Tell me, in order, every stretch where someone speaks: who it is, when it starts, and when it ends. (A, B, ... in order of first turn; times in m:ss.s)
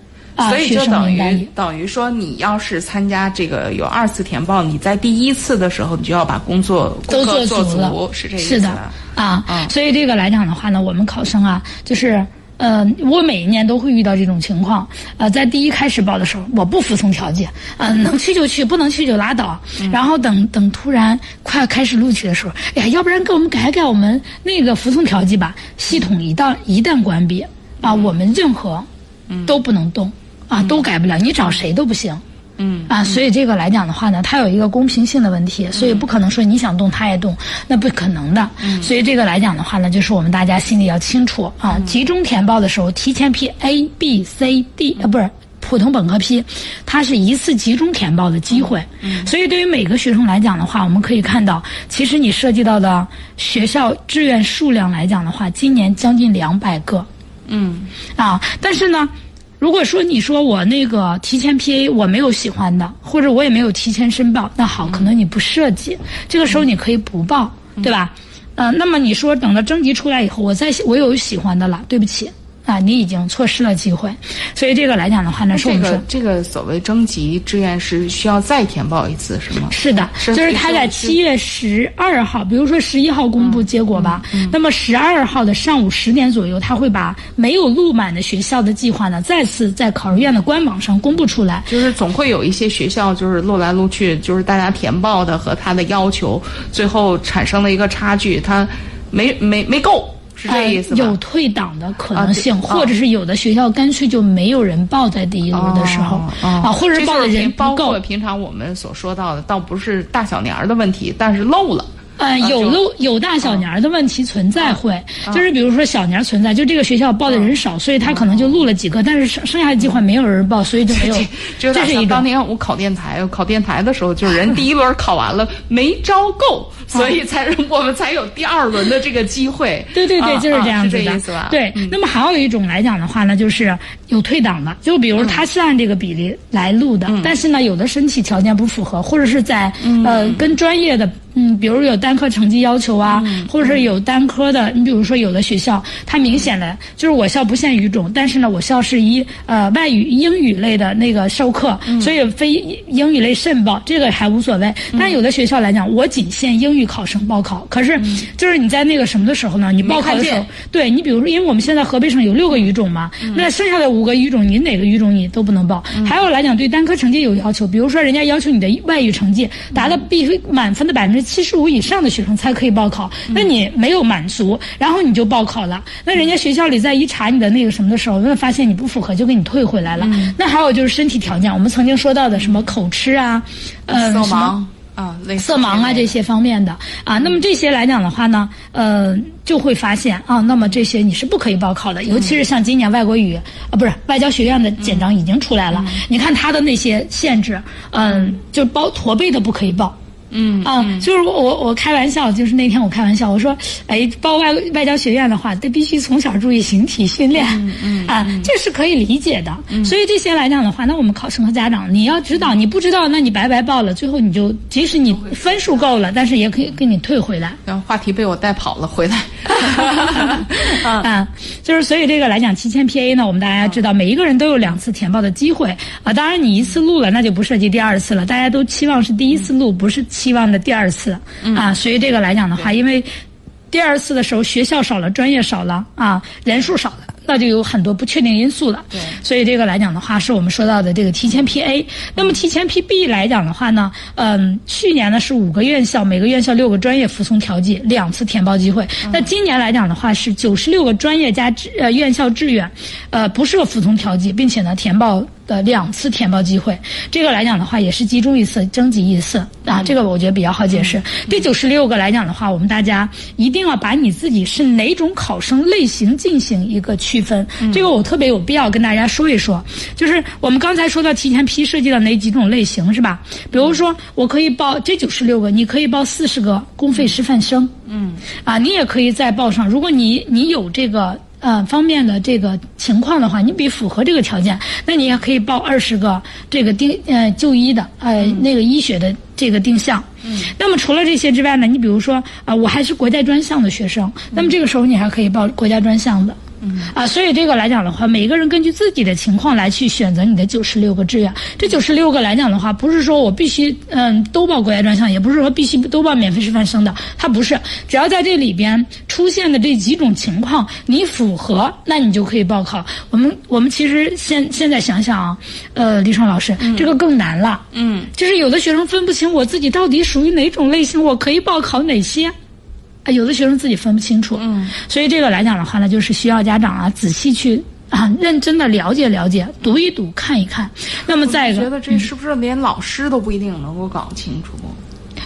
0:00.4-0:01.5 A
0:00.4-0:09.0 B
0:07.1-0:28.9 A
0:27.8-0:28.2 B
0:29.4-0:32.2 A
0:32.6-0:33.2 B
0:32.9-0:57.1 A
0:35.7-0:36.1 B
0:38.6-0:38.9 B
0:48.5-0:49.3 B
0:57.5-0:57.9 B
0:58.2-1:16.0 A
1:15.5-1:21.2 B
1:19.7-1:31.7 A
1:23.4-1:24.6 B
1:31.7-1:41.2 B
1:40.5-1:48.0 A
1:42.1-1:42.9 B
1:45.5-1:52.8 B
1:52.2-2:02.3 A
1:58.0-1:58.6 B
2:00.9-2:12.0 B
2:09.9-3:04.6 A
2:17.1-2:17.3 B
2:19.8-2:20.4 B
2:23.1-2:23.9 B
2:34.9-2:35.2 B
2:38.0-2:38.2 B
2:39.8-2:40.5 B
2:43.2-2:43.5 B
2:49.7-2:50.0 B
3:00.0-3:00.3 B
3:02.4-3:02.7 B
3:03.9-3:06.2 B
3:05.4-3:20.0 A
3:12.1-3:12.4 B
3:14.8-3:15.1 B
3:15.7-3:16.0 B
3:18.1-3:18.4 B
3:20.3-3:21.1 B
3:20.6-3:37.6 A
3:27.4-3:28.5 B
3:35.1-3:35.9 B
3:37.7-3:41.1 B
3:39.5-3:53.1 A
3:51.4-3:51.7 B
3:53.7-4:37.7 A
4:37.9-4:38.2 B
4:38.4-5:22.3 A
4:56.6-4:56.9 B
5:16.6-5:16.9 B
5:17.7-5:18.1 B
5:23.0-5:32.0 A
5:24.4-5:24.7 B
5:31.2-5:34.8 B